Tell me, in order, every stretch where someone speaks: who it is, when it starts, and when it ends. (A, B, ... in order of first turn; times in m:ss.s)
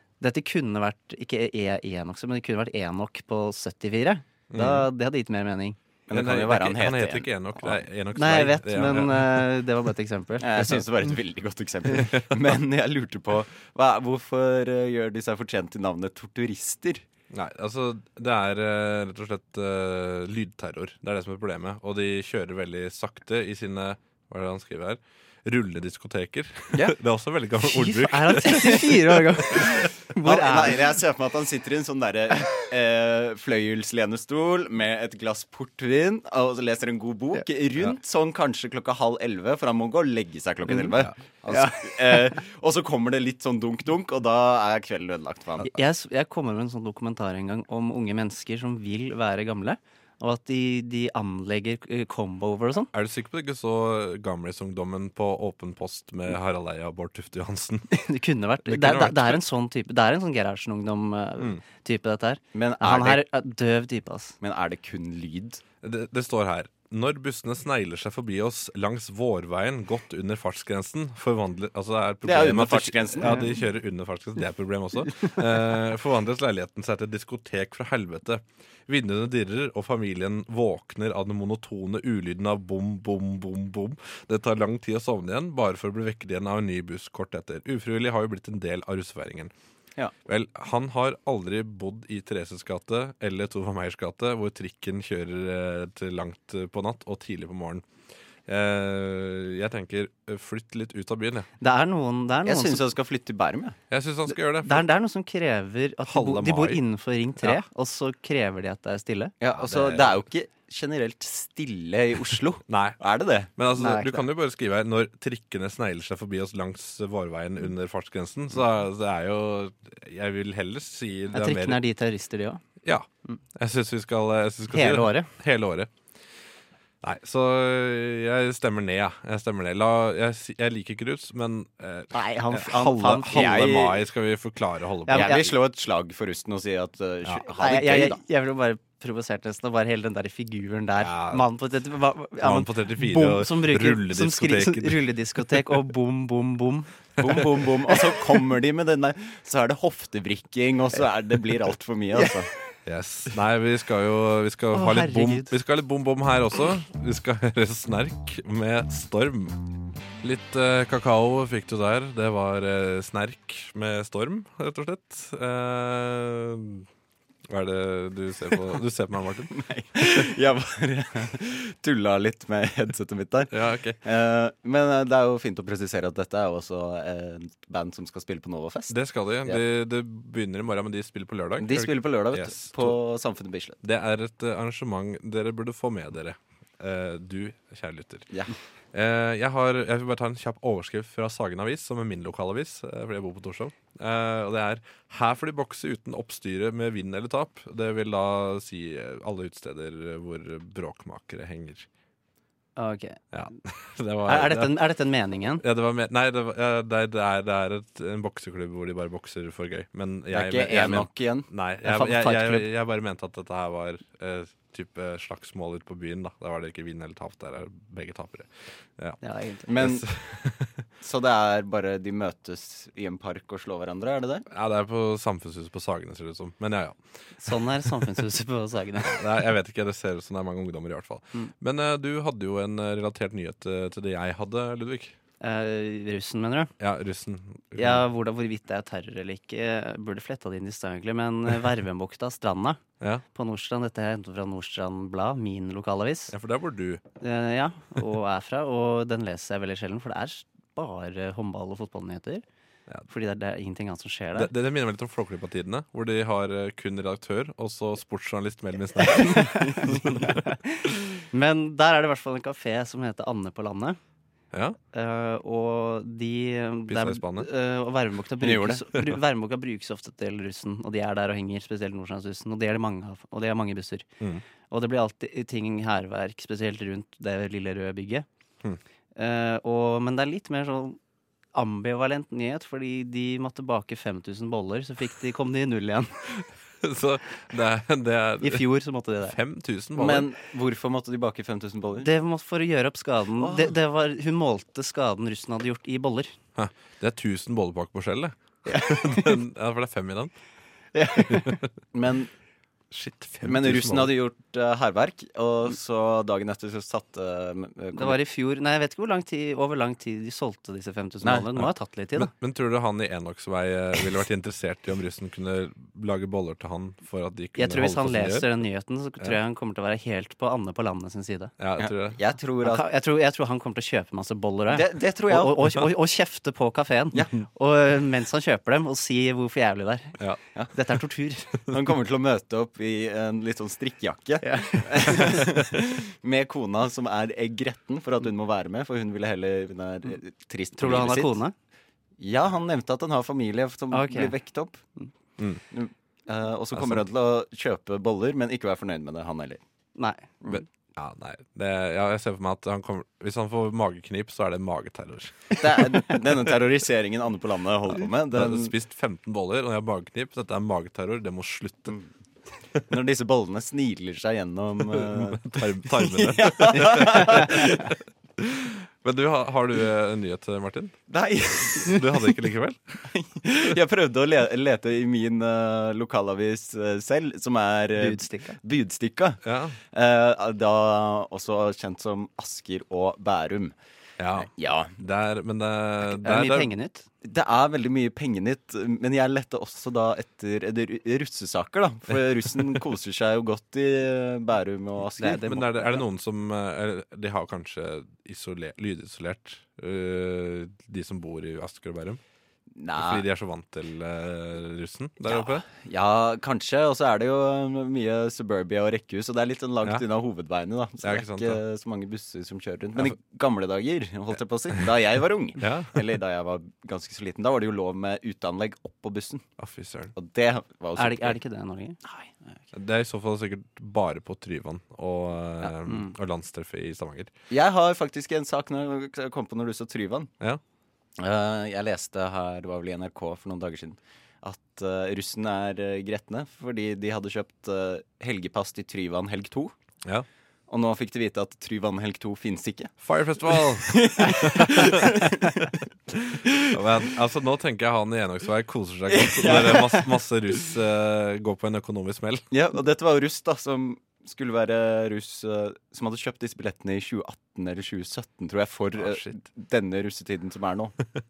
0:00.2-0:05.8 A
0:04.5-0:04.9 B
0:06.1-0:07.8 C
0:06.1-0:09.5 B
0:08.1-0:10.8 A
0:10.4-0:17.0 C
0:12.1-0:12.3 B
0:17.3-0:29.5 B
0:27.6-0:30.9 A
0:30.2-0:45.8 C
0:41.5-0:42.2 A
0:45.6-0:52.9 A
0:52.9-0:57.9 B
0:57.9-1:04.4 A
0:58.6-0:59.4 B
1:02.5-1:03.2 C
1:04.4-1:05.6 C
1:05.8-1:29.5 B
1:12.2-1:13.5 C
1:30.2-1:37.8 B
1:38.5-1:41.5 B
1:41.6-1:42.8 A
1:42.4-1:43.8 C
1:43.9-1:44.9 B
1:44.6-1:49.3 A
1:46.1-1:46.8 B
1:49.4-1:53.5 C
1:49.6-1:50.2 B
1:52.7-1:53.0 B
1:53.5-2:01.8 B
1:53.7-1:54.2 A
2:01.3-2:02.6 A
2:02.8-2:05.9 B
2:04.7-2:05.3 A
2:07.0-2:15.5 B
2:12.1-2:13.7 A
2:13.2-2:14.0 C
2:15.1-2:15.4 A
2:15.1-2:18.2 C
2:17.5-2:26.9 A
2:21.0-2:21.5 B
2:22.4-2:25.6 B
2:27.2-2:32.5 C
2:32.8-2:39.7 B
2:34.7-2:35.6 A
2:40.2-2:46.9 B
2:47.5-2:49.6 B
2:49.5-2:59.6 C
2:53.5-2:54.0 B
2:58.9-3:03.0 B
3:01.6-3:03.8 C
3:03.8-3:08.3 B
3:08.9-3:21.9 B
3:22.8-3:23.2 A
3:23.3-3:24.8 B
3:24.2-3:25.6 A
3:25.6-3:39.2 B
3:30.3-3:31.5 C
3:31.8-3:32.7 A
3:39.2-3:39.7 A
3:39.7-3:40.0 C
3:39.7-3:40.8 B
3:41.0-3:44.4 C
3:44.5-3:47.9 B
3:47.4-3:49.2 A
3:49.0-3:55.2 B
3:55.4-3:56.7 A
3:56.8-3:58.0 B
3:57.8-4:02.8 A
4:03.3-4:06.3 A
4:06.3-4:07.0 B
4:07.2-4:12.4 A
4:13.1-4:14.5 A
4:14.4-4:20.4 B
4:19.3-4:24.0 A
4:24.5-4:24.8 B
4:24.9-4:34.0 A
4:26.9-4:27.5 B
4:28.4-4:28.8 C
4:34.7-4:38.2 A
4:39.2-4:41.0 A
4:41.5-4:46.2 A
4:46.8-4:48.7 B
4:48.4-4:49.4 A
4:49.2-4:50.3 B
4:50.0-4:52.1 C
4:52.0-4:56.3 A
4:53.4-4:53.7 C
4:56.6-5:00.3 B
4:58.6-4:59.4 A
5:00.9-5:01.6 A
5:01.3-5:01.7 B
5:01.9-5:02.3 C
5:02.9-5:04.1 B
5:03.4-5:08.2 C
5:07.9-5:12.3 A
5:11.6-5:18.5 B
5:17.6-5:21.5 A
5:21.6-5:22.2 B
5:21.8-5:22.8 C
5:22.6-5:30.1 A
5:24.7-5:25.7 C
5:30.7-5:31.6 A
5:31.7-5:41.4 C
5:34.4-5:35.4 A
5:40.8-5:41.5 A
5:42.2-5:44.8 C
5:43.9-5:44.3 A
5:45.7-5:49.6 C
5:46.7-5:47.0 B
5:50.0-5:50.3 A
5:50.5-5:56.2 B
5:55.5-5:58.7 C
5:58.3-6:02.0 B
6:02.9-6:07.8 C
6:04.8-6:11.0 B
6:11.1-6:12.1 C
6:11.8-6:13.0 B
6:13.1-6:19.4 C
6:18.0-6:18.6 A
6:19.4-6:19.8 B
6:19.9-6:23.7 C
6:24.2-6:26.7 B
6:24.4-6:24.9 C
6:26.2-6:27.1 A
6:27.2-6:35.6 C
6:35.2-6:35.9 A
6:35.4-6:42.2 B
6:42.8-6:43.2 C
6:42.9-6:45.6 B
6:45.3-6:59.4 C
6:51.0-6:51.6 B
6:55.6-6:56.0 B
6:59.6-7:00.1 B
7:00.1-7:01.4 C
7:01.0-7:02.0 A
7:02.0-7:02.5 C
7:02.7-7:07.3 B
7:07.5-7:10.3 C
7:11.2-7:19.7 C
7:20.7-7:22.9 C
7:23.0-7:25.5 B
7:23.7-7:25.7 C
7:26.2-7:32.4 B
7:29.2-7:30.1 C
7:32.5-7:40.9 C
7:39.0-7:39.3 B